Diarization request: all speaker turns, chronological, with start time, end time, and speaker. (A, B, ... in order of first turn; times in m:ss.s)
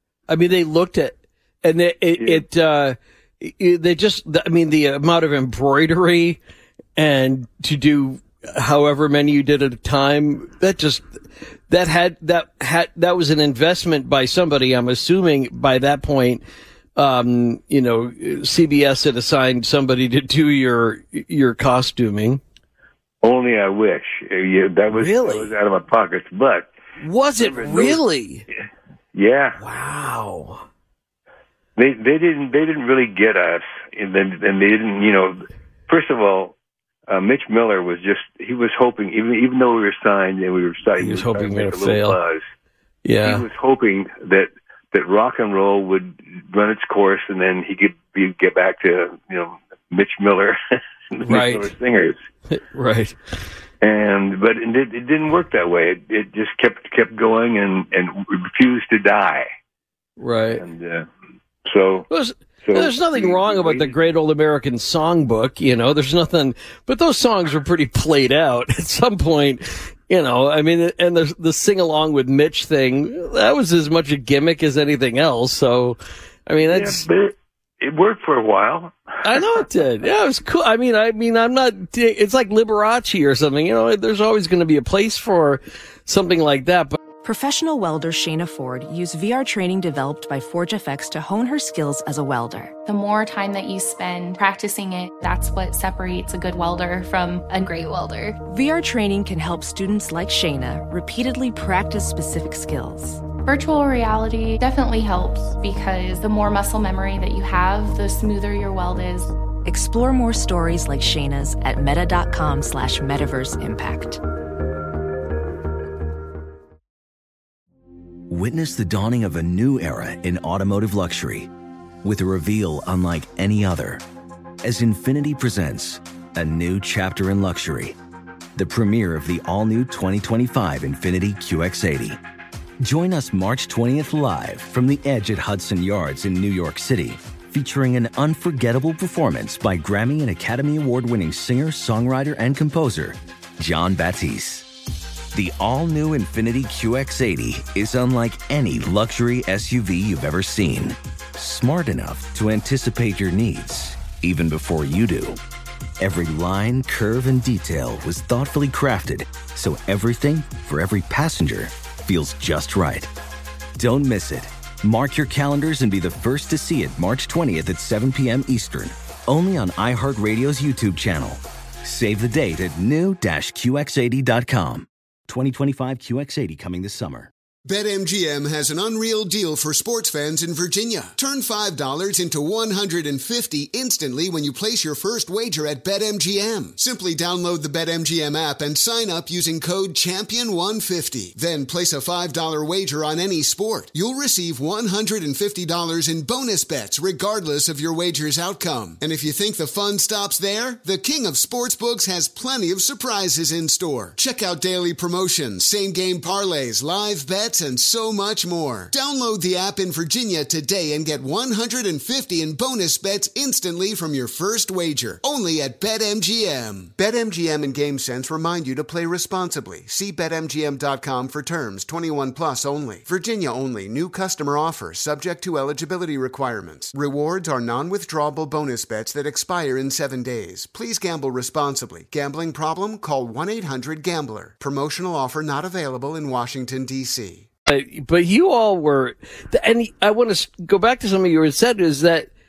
0:00.3-0:06.4 A
0:02.2-0:02.4 B
0:07.0-0:11.0 A
0:11.7-0:16.4 A
0:17.0-0:22.4 A
0:23.2-0:26.7 B
0:24.9-0:25.5 A
0:27.0-0:28.4 A
0:27.4-0:28.0 B
0:29.1-0:29.6 B
0:29.6-0:30.6 A
0:31.8-0:36.6 B
0:37.1-0:42.4 B
0:41.0-0:42.2 A
0:43.0-0:43.4 A
0:43.2-0:52.2 B
0:51.2-0:51.6 A
0:52.5-0:53.2 A
0:53.8-0:59.4 B
1:00.2-1:00.6 A
1:00.6-1:01.1 B
1:01.6-1:02.1 B
1:02.1-1:17.0 A
1:02.6-1:04.1 B
1:16.7-1:19.4 B
1:19.2-1:27.0 A
1:27.2-1:32.7 C
1:32.9-1:38.4 D
1:38.4-1:43.2 C
1:43.4-1:49.3 D
1:49.6-1:54.2 C
1:58.3-2:01.5 E
2:02.0-2:04.0 E
2:04.6-2:08.0 E
2:08.6-2:12.2 E
2:12.8-2:24.7 E
2:25.3-2:35.4 E
2:36.0-2:43.1 E
2:43.8-2:57.3 E
2:57.6-3:57.4 F
3:57.7-4:02.3 A